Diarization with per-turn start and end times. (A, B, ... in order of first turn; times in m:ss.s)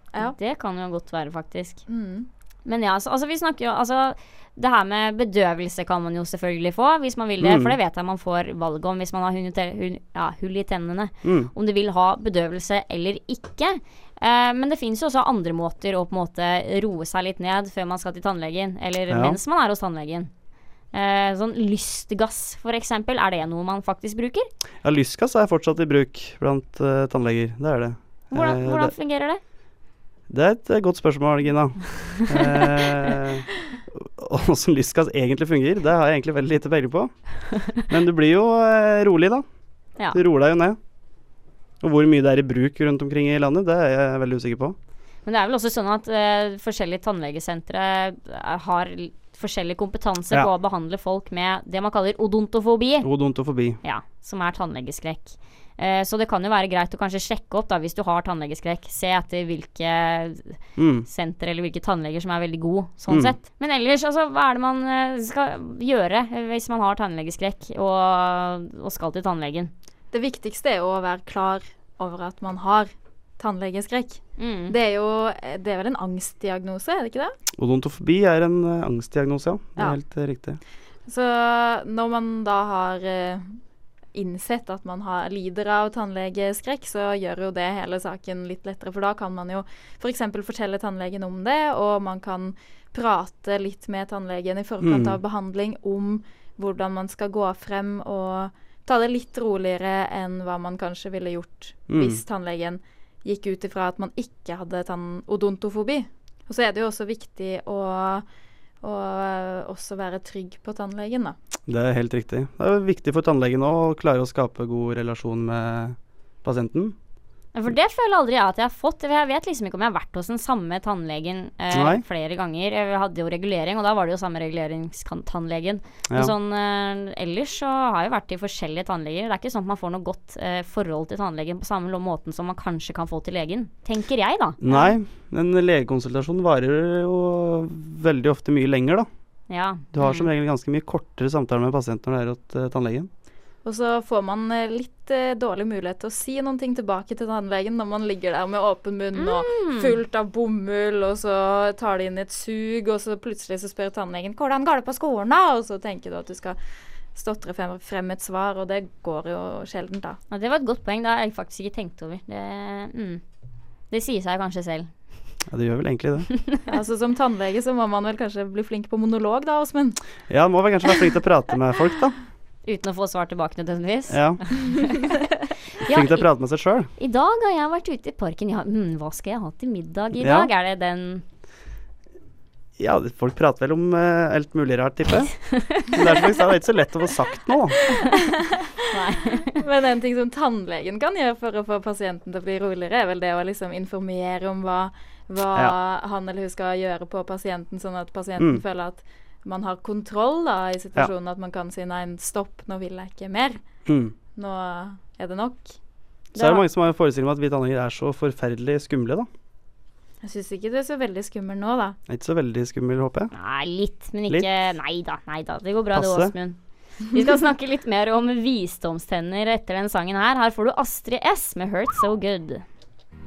0:00.2-0:01.8 A
0:01.9-0:02.3 B
0:02.6-0:20.3 A
0:07.4-0:07.8 C
0:11.2-0:11.5 C
0:19.1-0:19.4 C
0:20.9-0:24.5 A
0:24.8-0:28.9 C
0:28.3-0:29.4 A
0:30.3-0:37.1 C
0:37.7-0:39.4 C
0:40.1-0:40.8 C
0:41.8-0:44.8 C
0:45.2-0:53.1 A
0:53.0-0:53.8 C
0:53.8-1:09.7 A
1:00.8-1:01.1 C
1:03.1-1:03.4 C
1:10.1-1:17.3 B
1:14.4-1:14.7 A
1:17.6-1:20.6 C
1:21.1-1:23.6 B
1:24.1-1:48.2 B
1:34.8-1:35.2 C
1:41.9-1:42.2 C
1:48.8-1:51.4 B
1:51.7-1:56.9 C
1:57.5-2:14.6 A
2:01.7-2:02.0 C
2:14.6-2:19.1 C
2:19.5-2:20.3 A
2:19.9-2:23.1 C
2:23.6-2:36.6 B
2:29.2-2:29.9 A
2:37.1-2:40.2 B
2:40.3-2:43.2 A
2:43.9-2:44.9 A
2:45.5-2:46.3 C
2:46.7-2:50.0 B
2:50.3-2:52.2 C
2:52.6-2:55.1 A
2:54.1-2:54.4 C
2:55.8-2:56.2 A
2:55.9-2:56.9 C
2:57.0-3:01.2 A
3:00.2-3:00.5 C
3:02.8-3:07.8 C
3:05.4-3:05.9 A
3:08.9-3:09.5 A
3:09.5-3:23.6 B
3:23.8-3:24.1 C
3:24.4-3:25.7 B
3:26.4-3:26.6 A
3:26.4-3:29.3 C
3:30.2-3:32.0 B
3:32.1-3:33.3 C
3:33.3-3:42.6 A
3:35.9-3:36.3 C